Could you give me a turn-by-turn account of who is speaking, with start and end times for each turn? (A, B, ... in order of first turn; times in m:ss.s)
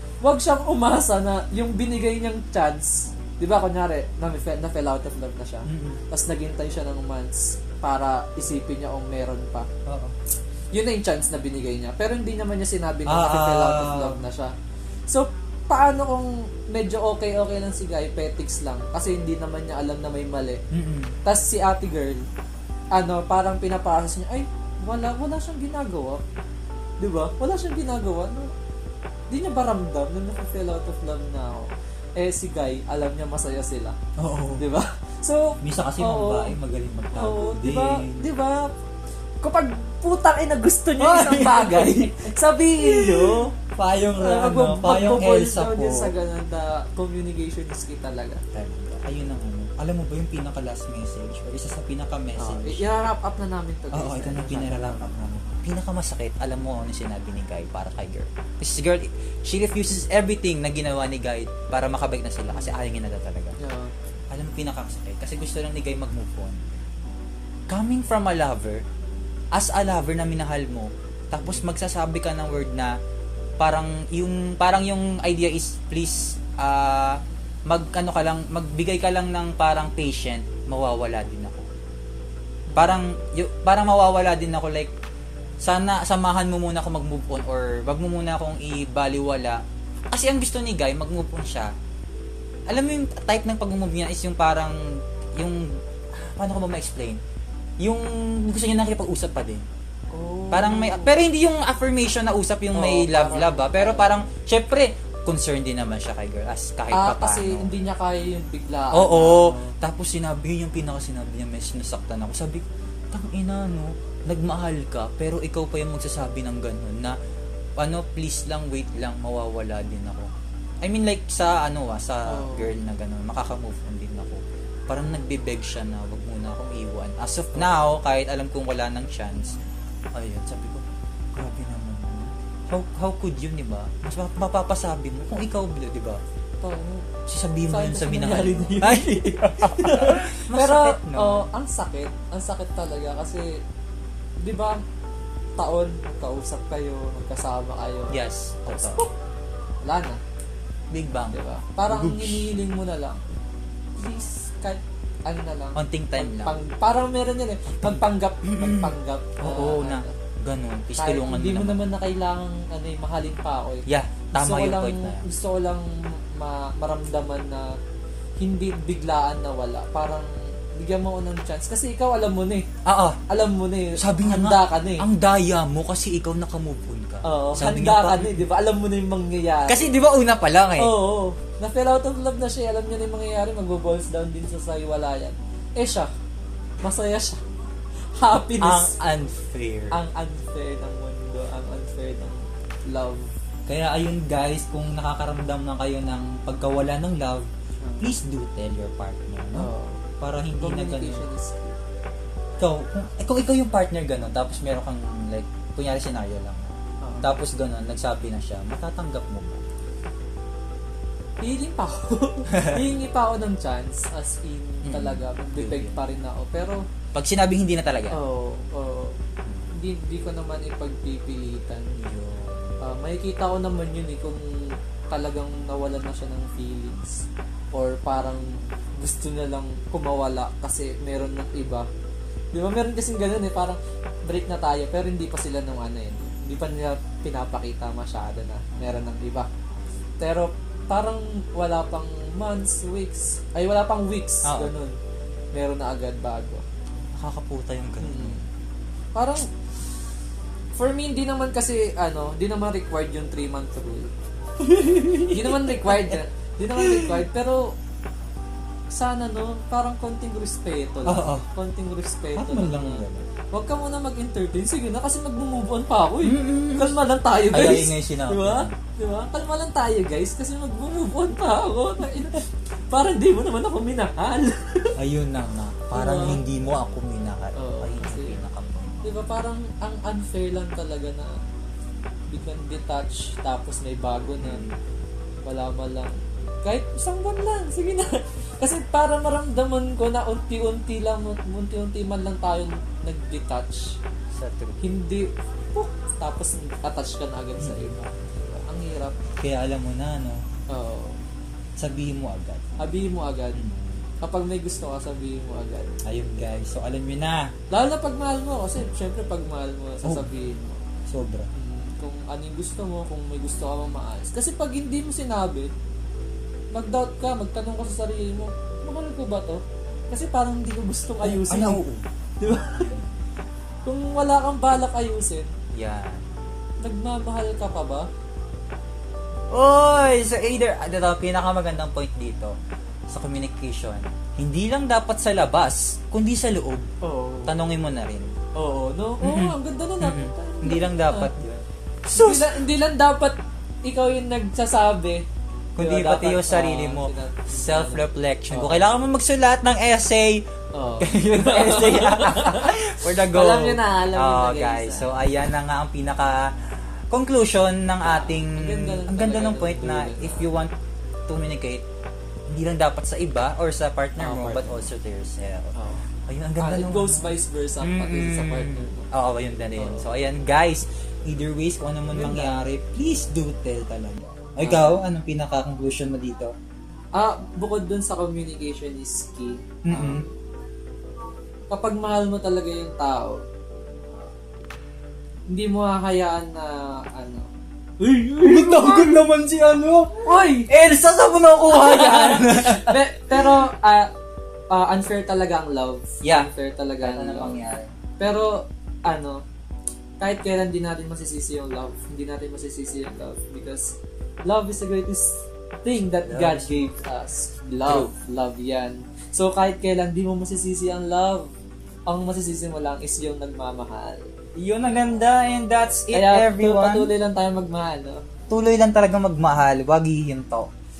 0:00.2-0:09.7 A
0:05.7-0:06.0 B
0:09.8-0:10.1 B
0:10.7-0:14.5 A
0:13.1-0:14.2 B
0:15.1-0:20.6 A
0:20.7-0:21.1 B
0:21.2-0:22.2 A
0:22.9-0:26.2 A
0:27.0-0:28.5 A
0:29.3-0:34.0 A
0:34.2-0:34.7 B
0:34.6-0:36.6 A
0:35.6-0:38.3 B
0:37.1-0:38.7 A
0:39.4-0:43.5 A
0:41.0-0:42.3 B
0:42.8-0:46.1 B
0:44.2-0:48.4 A
0:48.5-0:52.8 B
0:52.4-0:55.4 A
0:53.9-1:03.6 B
1:02.5-1:02.8 A
1:03.6-1:03.9 A
1:04.3-1:06.7 B
1:07.7-1:08.8 B
1:09.5-1:12.9 B
1:11.4-1:11.6 A
1:13.6-1:21.7 B
1:22.7-1:23.0 A
1:22.7-1:24.9 B
1:25.6-1:29.6 B
1:30.1-1:31.7 B
1:32.7-1:37.2 B
1:37.8-1:39.6 B
1:40.1-1:41.2 A
1:40.5-1:47.7 B
1:42.7-1:44.2 A
1:46.9-1:49.7 A
1:48.9-1:57.2 B
1:57.8-2:00.3 B
2:00.8-2:09.6 B
2:02.2-2:02.7 A
2:07.5-2:07.8 A
2:10.1-2:16.2 B
2:16.6-2:17.1 A
2:17.2-2:21.5 B
2:17.7-2:23.6 A
2:24.4-2:24.8 A
2:25.6-2:29.1 A
2:28.1-2:29.1 B
2:29.8-2:30.2 A
2:30.9-2:32.5 B
2:31.3-2:33.2 A
2:34.0-2:40.1 A
2:35.8-2:36.6 B
2:37.7-2:41.8 B
2:41.0-2:47.7 A
2:43.8-2:45.2 B
2:48.4-2:52.6 A
2:52.8-2:53.2 B
2:53.3-2:55.0 A
2:54.0-2:58.5 B
2:57.2-3:00.0 A
2:59.7-3:00.9 B
3:00.8-3:06.1 A
3:06.8-3:07.4 A
3:08.2-3:08.9 A
3:08.6-3:10.0 B
3:09.9-3:13.3 A
3:13.7-3:17.5 B
3:17.8-3:18.1 A
3:18.0-3:21.2 B
3:19.5-3:20.0 A
3:20.6-3:21.8 A
3:22.6-3:29.6 B
3:27.0-3:27.3 A
3:31.4-3:36.8 A
3:32.5-3:32.9 B
3:34.8-3:36.0 B
3:37.1-3:38.2 B
3:38.1-3:39.2 A
3:39.7-3:42.0 A
3:42.0-3:42.8 B
3:42.8-3:51.9 A
3:52.5-3:59.5 A
4:00.2-4:05.0 A
4:04.4-4:04.7 B
4:05.5-4:06.6 A
4:07.2-4:08.4 B
4:08.0-4:08.4 A
4:09.1-4:09.5 A
4:10.7-4:17.7 A
4:15.0-4:16.2 B
4:16.7-4:17.2 B
4:18.9-4:34.9 A
4:21.0-4:21.5 B
4:22.4-4:23.3 B
4:26.2-4:27.0 B
4:27.5-4:28.7 B
4:35.0-4:39.0 B
4:35.9-4:36.4 A
4:37.6-4:38.4 A
4:39.0-4:41.4 A
4:42.3-4:44.6 A
4:44.4-4:44.8 B
4:45.4-4:54.0 A
4:54.4-4:54.8 B
4:54.8-4:59.2 A
4:57.6-4:58.0 B
4:59.4-5:00.4 B
5:00.7-5:01.2 A
5:01.8-5:02.6 B
5:02.8-5:03.6 A
5:03.5-5:04.0 B
5:04.2-5:06.0 A
5:06.0-5:07.5 B
5:07.7-5:10.9 A
5:10.0-5:10.3 B
5:11.0-5:11.5 B
5:11.5-5:15.7 A
5:16.7-5:21.8 A
5:21.2-5:22.1 B
5:22.4-5:22.9 A
5:22.8-5:23.1 B
5:23.8-5:25.5 A
5:25.8-5:26.2 B
5:26.8-5:28.1 A
5:29.5-5:32.5 B
5:33.1-5:36.9 B
5:37.0-5:37.6 A
5:37.4-5:38.3 B
5:38.6-5:41.3 A
5:39.2-5:42.6 B
5:42.1-5:45.2 A
5:45.8-5:50.4 B
5:45.8-5:48.8 A
5:50.7-5:55.2 A
5:51.0-5:56.5 B
5:57.1-6:00.7 B
5:58.0-6:00.5 A
6:01.3-6:01.8 B
6:02.5-6:05.7 B
6:04.2-6:04.9 A
6:05.7-6:06.0 A
6:06.3-6:16.5 B
6:06.6-6:09.1 A
6:09.8-6:10.1 A
6:12.1-6:12.6 A
6:14.6-6:15.0 A
6:17.1-6:20.3 A
6:19.8-6:20.2 B
6:21.7-6:23.4 A
6:25.5-6:29.1 A
6:28.4-6:33.6 B
6:30.2-6:30.7 A
6:31.7-6:34.1 A
6:34.7-6:37.6 A
6:36.2-6:36.5 B
6:37.0-6:37.9 B
6:38.2-6:39.4 A
6:40.2-6:51.5 A
6:46.3-6:46.8 B
6:47.8-6:48.1 B
6:52.1-6:54.3 A
6:54.6-6:57.1 B
6:56.1-6:58.2 A
6:58.5-7:00.7 B